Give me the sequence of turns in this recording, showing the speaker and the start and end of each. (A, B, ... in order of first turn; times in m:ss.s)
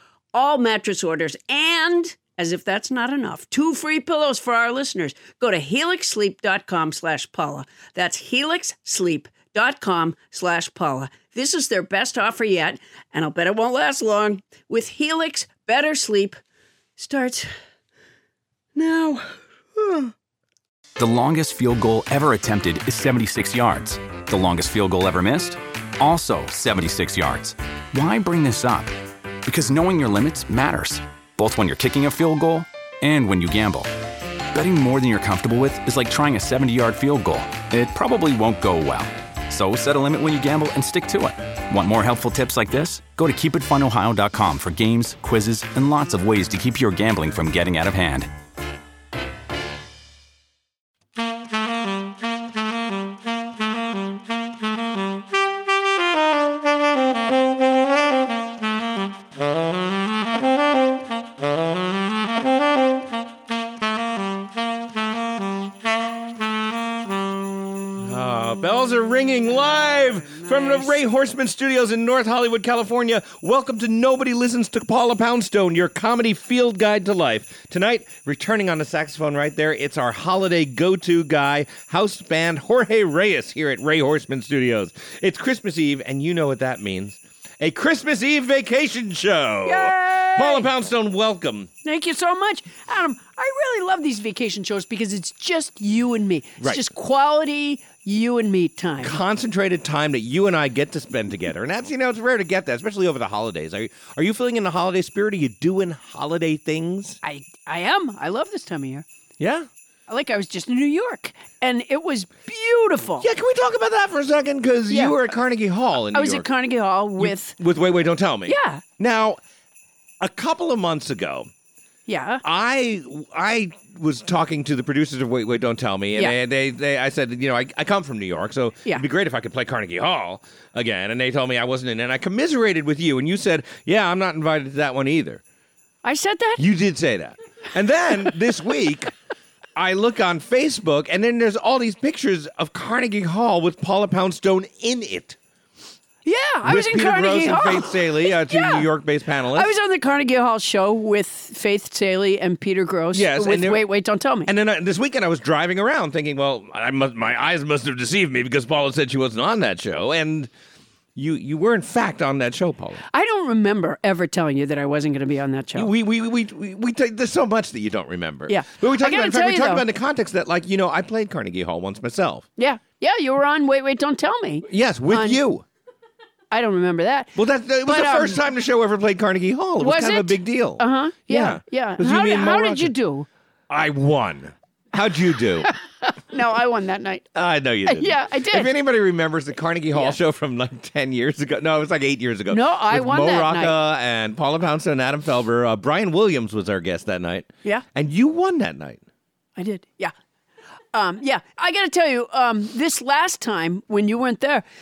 0:00.3-0:16.4 A
0:17.0-0:17.5 A
0:18.7-0:20.1 A
0:21.0-0:28.9 B
0:29.4-0:33.9 B
0:34.5-0:48.3 B
1:08.0-1:31.7 C
1:09.9-1:10.9 A
1:29.6-1:30.7 A
1:31.8-1:39.2 A
1:39.0-1:47.2 C
1:47.2-1:49.0 A
1:49.4-1:49.7 C
1:50.1-1:53.3 A
1:53.2-1:56.5 C
1:54.9-1:55.2 A
1:56.1-1:57.6 A
1:57.2-1:59.4 C
1:58.5-1:58.8 A
2:00.2-2:01.5 C
2:02.1-2:02.4 A
2:02.4-2:15.4 C
2:16.0-2:16.6 A
2:16.6-2:19.1 C
2:19.8-2:25.4 C
2:26.2-2:28.9 A
2:26.6-2:29.7 C
2:29.5-2:34.5 A
2:33.1-2:33.8 C
2:34.4-2:40.5 C
2:41.1-2:43.0 C
2:43.1-2:45.9 A
2:45.7-2:52.5 C
2:48.5-2:49.8 A
2:52.6-2:55.4 A
2:54.6-2:55.6 C
2:56.5-2:57.3 A
2:57.3-3:02.9 C
2:57.8-2:58.4 A
2:59.8-3:03.3 A
3:03.7-3:05.7 C
3:06.0-3:07.3 A
3:07.3-3:19.0 C
3:07.8-3:08.7 A
3:09.9-3:10.2 A
3:12.5-3:13.7 A
3:19.6-3:20.1 A
3:20.9-3:24.6 A